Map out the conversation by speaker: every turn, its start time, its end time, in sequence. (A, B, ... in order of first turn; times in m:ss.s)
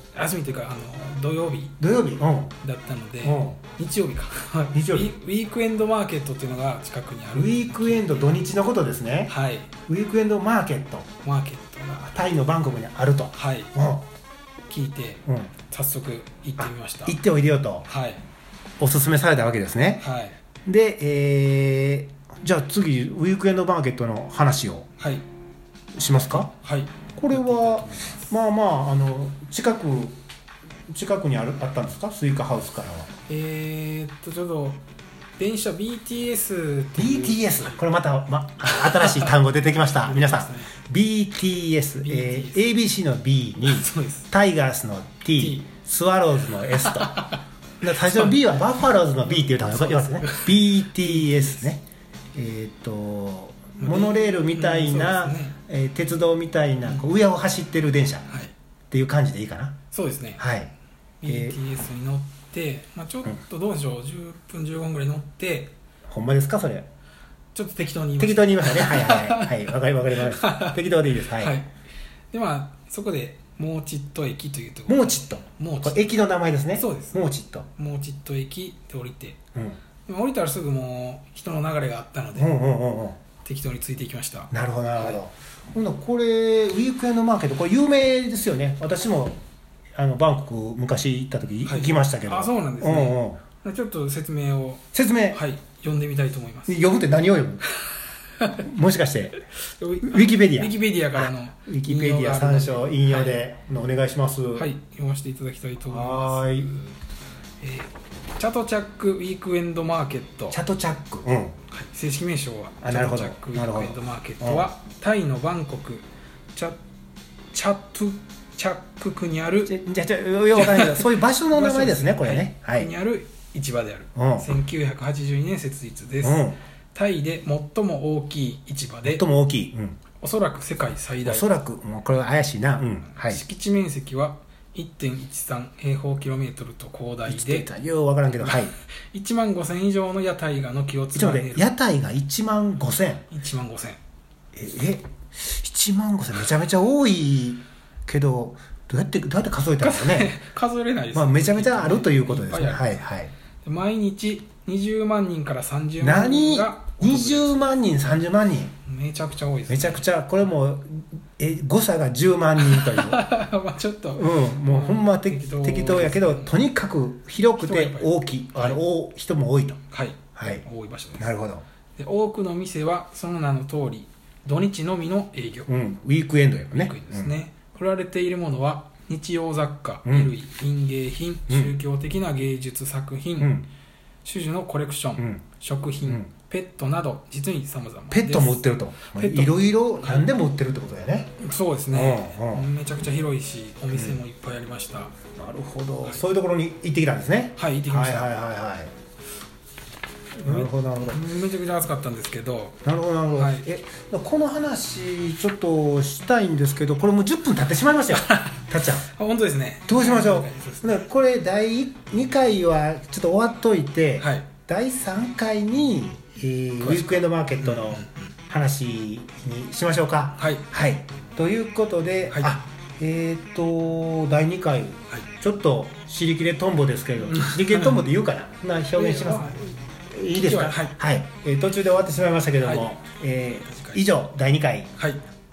0:00.1-0:01.8 A
0:01.8-0:02.5 B
0:02.6-0:08.4 A
0:03.2-0:03.6 B
0:04.7-0:05.1 B
0:07.3-0:09.3 B
0:09.3-0:09.7 A
0:09.9-0:11.1 B
0:11.2-0:12.1 A
0:12.0-0:14.1 B
0:13.3-0:13.7 A
0:14.7-0:17.2 A
0:15.2-0:15.5 B
0:16.6-0:17.9 B
0:17.9-0:18.2 A
0:18.8-0:20.0 B
0:20.0-0:20.4 A
0:20.6-0:24.9 B
0:25.0-0:25.2 A
0:26.0-0:26.5 B
0:26.3-0:28.3 A
0:27.2-0:30.2 B
0:30.9-0:33.1 B
0:33.3-0:34.8 A
0:35.4-0:37.8 A
0:37.0-0:47.2 B
0:38.7-0:40.7 A
0:42.0-0:42.7 A
0:43.6-0:44.3 A
0:45.4-0:45.6 A
0:46.7-0:51.7 A
0:47.8-0:58.2 B
0:53.8-0:55.6 A
0:56.8-0:57.1 A
0:58.3-0:58.5 A
0:58.9-0:59.8 B
0:59.9-1:00.4 A
1:00.4-1:00.7 B
1:01.2-1:05.7 A
1:01.2-1:01.6 B
1:06.1-1:06.8 B
1:07.5-1:11.7 A
1:08.2-1:11.6 B
1:12.3-1:16.0 A
1:14.9-1:17.7 B
1:16.8-1:17.2 A
1:17.8-1:19.4 A
1:20.0-1:22.5 A
1:22.3-1:23.2 B
1:23.4-1:25.2 A
1:24.5-1:29.4 B
1:30.0-1:33.4 B
1:31.6-1:36.9 A
1:34.9-1:35.4 B
1:36.7-1:37.6 B
1:38.4-1:39.4 B
1:39.8-1:43.4 A
1:40.0-1:44.7 B
1:44.5-1:47.0 A
1:45.9-1:46.7 B
1:47.6-1:50.6 A
1:50.5-1:51.6 B
1:51.7-1:56.8 A
1:52.8-1:54.7 B
1:57.5-1:59.7 A
1:59.6-2:02.9 B
2:00.5-2:09.2 A
2:04.2-2:04.5 B
2:06.2-2:06.6 B
2:09.0-2:10.0 B
2:10.2-2:11.4 A
2:11.2-2:13.4 B
2:13.2-2:17.7 A
2:17.3-2:18.7 B
2:18.4-2:21.7 A
2:21.1-2:23.2 B
2:23.3-2:24.0 A
2:24.5-2:30.3 B
2:29.8-2:33.0 A
2:31.1-2:33.3 B
2:33.6-2:37.7 A
2:36.0-2:38.7 B
2:38.8-2:40.0 A
2:39.7-2:43.2 B
2:42.6-2:46.6 A
2:44.2-2:49.8 B
2:47.6-2:48.8 A
2:49.9-2:51.3 A
2:50.4-2:50.6 B
2:51.2-2:51.6 B
2:52.0-2:55.7 A
2:55.7-2:57.3 B
2:56.7-3:03.5 A
3:00.0-3:00.3 B
3:03.4-3:03.7 B
3:04.2-3:10.3 A
3:05.2-3:05.4 B
3:08.1-3:11.3 B
3:11.4-3:15.1 A
3:11.9-3:12.7 B
3:13.9-3:14.2 B
3:15.4-3:18.9 B
3:17.6-3:18.3 A
3:20.4-3:22.8 A
3:20.4-3:21.3 B
3:22.8-3:29.1 B
3:23.3-3:23.6 A
3:28.1-3:31.1 A
3:29.9-3:54.9 B
3:34.2-3:34.5 A
3:36.8-3:38.2 A
3:40.4-3:40.7 A
3:42.3-3:42.6 A
3:47.3-3:48.0 A
3:49.0-3:49.7 A
3:50.3-3:51.0 A
3:52.6-3:52.9 A
3:53.6-3:54.0 A
3:55.0-3:55.2 A